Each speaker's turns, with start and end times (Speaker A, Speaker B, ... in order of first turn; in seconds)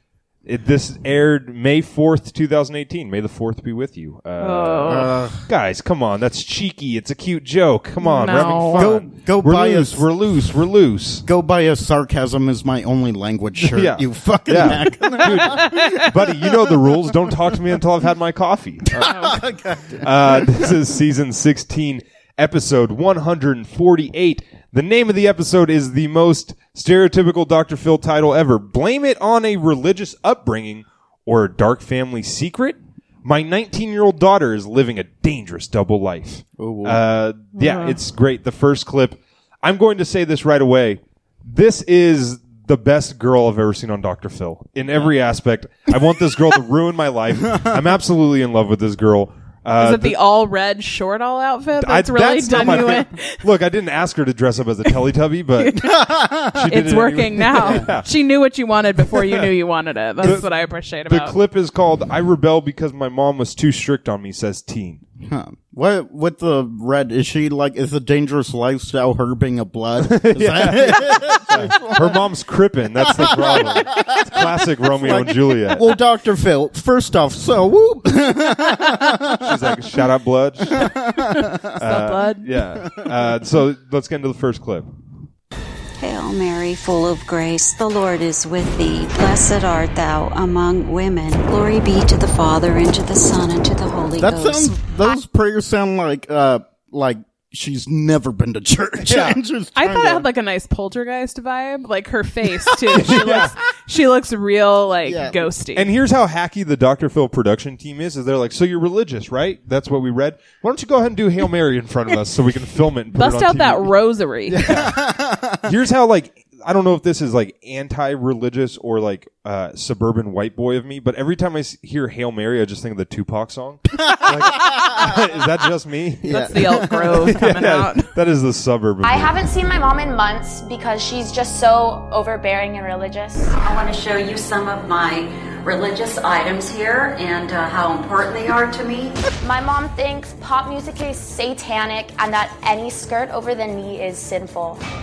Speaker A: 0.5-11.2, 13.6-19.2, 20.0-50.2, 51.8-58.1, 59.1-59.5, 60.2-60.5, 61.1-65.0, 70.0-76.0, 79.3-80.9, 81.7-84.9, 99.0-99.4, 102.9-103.5, 105.7-113.9, 114.6-115.0, 115.6-129.5
Speaker B: 4.4-5.1, 8.0-8.9, 15.5-15.9, 19.0-19.4, 37.5-38.0, 49.8-53.4, 56.7-61.4, 81.2-82.5, 99.8-105.9, 113.1-114.8, 126.3-128.1
Speaker C: 4.9-5.5, 8.7-10.6, 11.2-16.9, 18.9-20.7, 36.6-37.0, 55.8-56.6, 57.6-57.9, 65.2-72.2, 73.0-79.6, 80.7-81.7, 94.2-100.3, 105.0-105.5, 114.5-115.7, 124.1-125.2, 126.2-127.2
Speaker D: 86.0-94.8, 133.5-139.2
Speaker E: 129.0-133.5, 139.4-144.8